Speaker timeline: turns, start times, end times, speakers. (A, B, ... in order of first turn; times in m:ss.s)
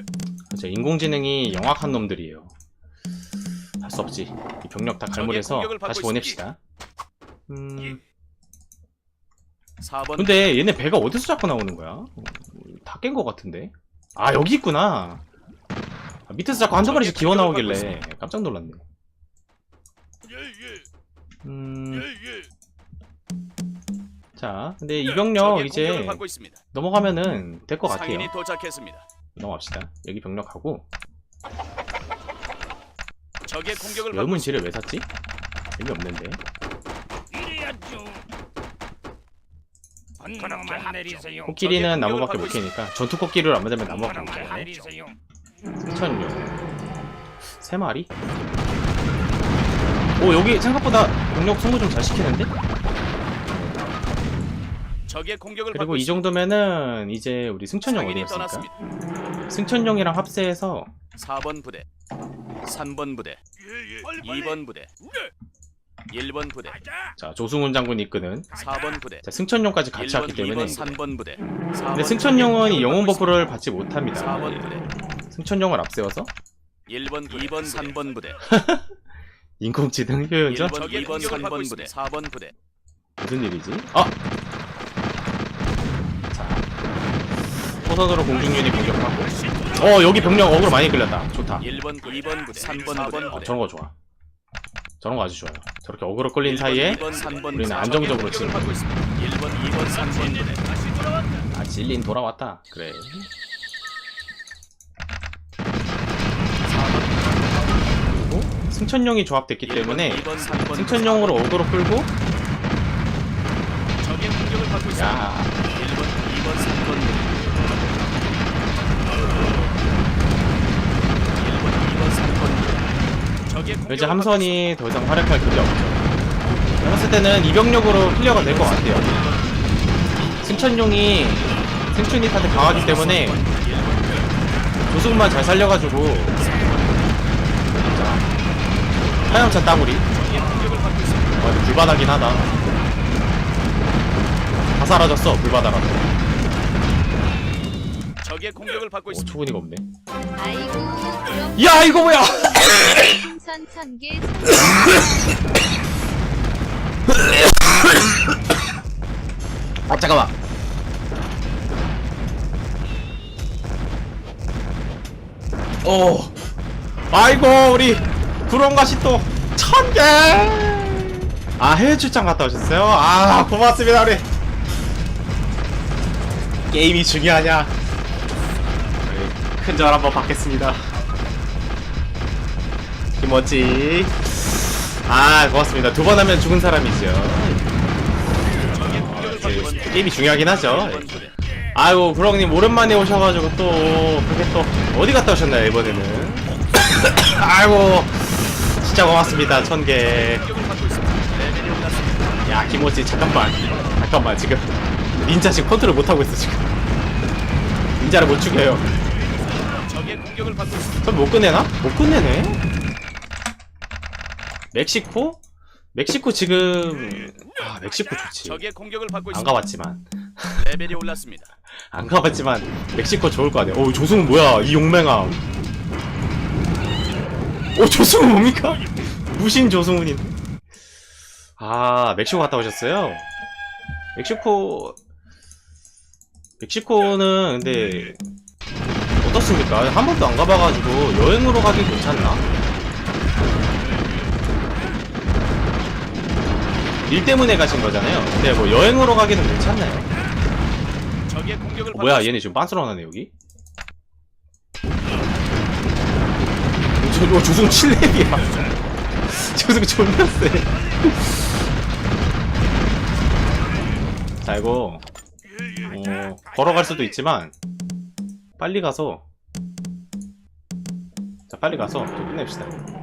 0:00.5-0:02.5 A
0:03.8-0:06.6 A
0:05.2-0:06.4 B
0:07.5-0:08.0 A
0:09.8-0:10.3 B
0:10.2-0:15.2 A
0:16.3-0:18.8 A
0:16.7-0:17.9 B
0:21.4-0:22.1 A
0:24.4-0:28.3 A
0:25.3-0:26.6 B
0:27.9-0:29.0 B
0:29.4-0:30.8 A
0:33.5-0:34.5 B
0:34.1-0:35.0 A
0:35.8-0:36.4 A
0:40.6-0:42.6 B
0:41.4-0:44.8 A
0:45.8-0:46.7 A
0:47.5-0:48.1 A
0:50.2-0:52.5 A
0:53.5-0:53.8 A
0:55.1-0:56.2 B
0:55.7-0:58.7 A
0:57.9-0:58.7 B
0:59.5-1:00.9 A
1:01.2-1:01.8 B
1:02.6-1:03.4 B
1:04.2-1:04.9 B
1:06.1-1:06.8 B
1:07.2-1:08.5 A
1:08.6-1:09.2 B
1:09.2-1:11.0 A
1:10.6-1:13.1 B
1:11.9-1:14.8 A
1:15.3-1:16.3 A
1:16.9-1:18.4 B
1:18.4-1:18.9 A
1:19.6-1:21.4 A
1:20.6-1:22.5 B
1:23.2-1:24.1 A
1:26.3-1:26.6 A
1:27.7-1:31.7 A
1:31.8-1:33.4 B
1:33.3-1:33.9 A
1:35.0-1:38.8 A
1:36.6-1:40.7 B
1:41.5-1:43.3 A
1:48.0-1:52.1 A
1:50.1-1:50.7 B
1:54.0-1:55.1 B
1:54.9-1:55.5 A
1:55.8-1:57.4 B
2:01.8-2:02.7 B
2:03.5-2:04.5 B
2:03.9-2:06.2 A
2:06.8-2:09.3 A
2:08.5-2:09.5 B
2:10.4-2:13.4 A
2:12.9-2:14.2 B
2:14.9-2:16.6 A
2:17.7-2:18.3 A
2:19.2-2:20.1 A
2:20.1-2:21.3 B
2:21.4-2:22.6 A
2:24.7-2:26.1 A
2:28.2-2:29.3 B
2:29.1-2:29.8 A
2:30.4-2:35.4 C
2:31.6-2:32.4 A
2:39.9-2:40.3 A
2:45.8-2:46.3 A
2:47.1-2:54.2 A
2:56.7-2:57.7 A
2:59.0-3:00.8 A
3:03.2-3:07.8 A
3:08.6-3:20.5 A
3:08.6-3:11.3 B
3:20.3-3:22.4 B
3:22.4-3:26.7 A
3:28.0-3:28.9 A
3:29.8-3:30.9 B
3:31.0-3:32.6 A
3:34.7-3:35.4 A
3:35.9-3:38.6 A
3:38.4-3:39.4 B
3:39.3-3:40.7 A
3:40.6-3:41.5 B
3:41.9-3:45.4 A
3:47.7-3:50.3 A
3:51.6-3:53.2 A
3:54.2-3:55.0 A
3:56.6-3:58.2 A
3:59.2-4:02.4 A
4:07.0-4:10.1 A
4:11.3-4:12.3 B
4:11.9-4:13.3 A
4:17.0-4:18.7 A
4:19.2-4:21.4 A
4:24.4-4:25.0 A
4:25.8-4:27.5 A
4:28.6-4:29.2 A
4:31.5-4:32.8 A